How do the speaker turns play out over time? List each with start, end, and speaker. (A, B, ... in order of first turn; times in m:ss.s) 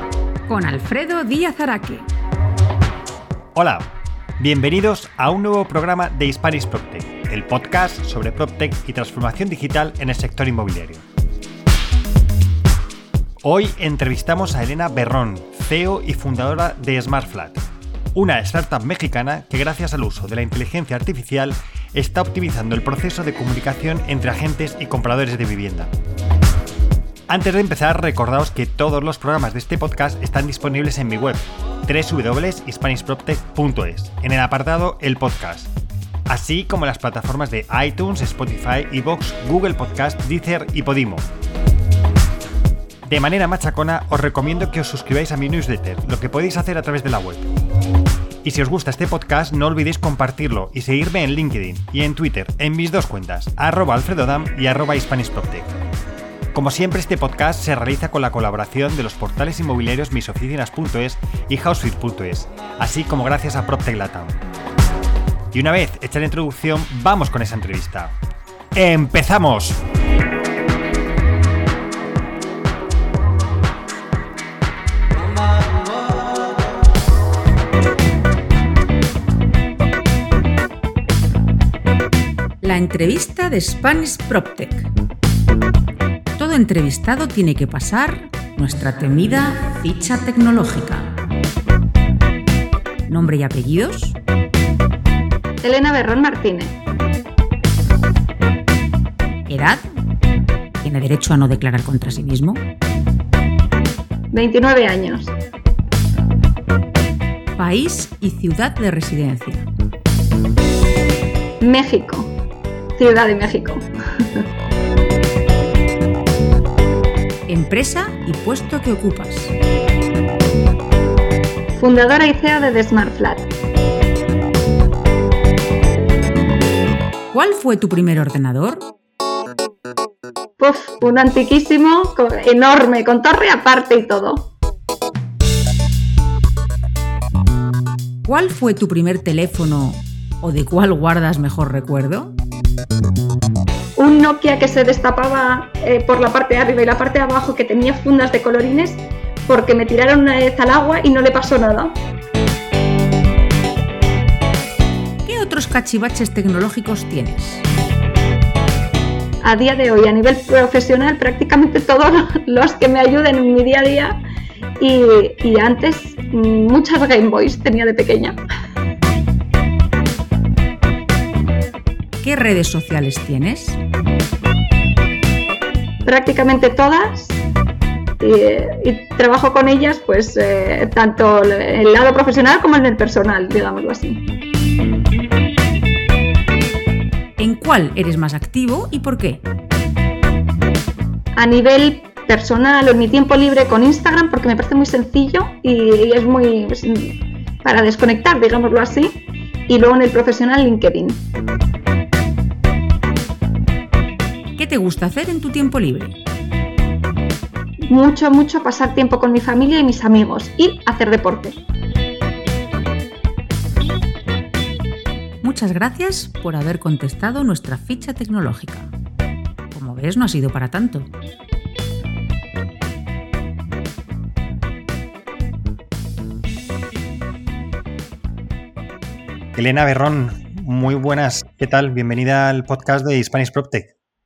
0:00.5-0:02.1 A
0:03.6-0:11.0 B
0:13.4-0:25.9 B
0:27.3-0:35.8 B
0:36.3-0:41.3 B
0:43.0-0:47.5 B
0:48.4-0:55.7 B
0:56.5-1:04.4 B
1:05.5-1:08.2 B
1:08.7-1:09.8 B
1:22.6-1:24.9 A
1:26.4-1:31.1 A
1:33.1-1:34.2 A
1:35.6-1:36.8 C
1:39.5-1:39.8 A
1:40.8-1:42.6 A
1:44.3-1:45.4 C
1:47.6-1:49.7 A
1:51.6-1:52.3 C
1:53.0-1:54.4 C
1:57.5-1:59.5 A
2:01.8-2:03.5 C
2:07.3-2:08.9 A
2:10.6-2:14.5 C
2:18.3-2:22.4 A
2:24.0-2:32.0 C
2:35.2-2:37.6 A
2:39.4-2:44.2 C
2:44.8-2:48.4 C
2:52.2-2:53.8 A
2:56.1-2:57.4 C
2:58.2-3:04.2 C
3:07.4-3:09.4 A
3:11.4-3:21.2 C
3:24.6-3:26.2 A
3:27.9-3:31.6 C
3:35.4-3:38.9 A
3:39.7-3:41.1 A
3:49.6-3:53.9 B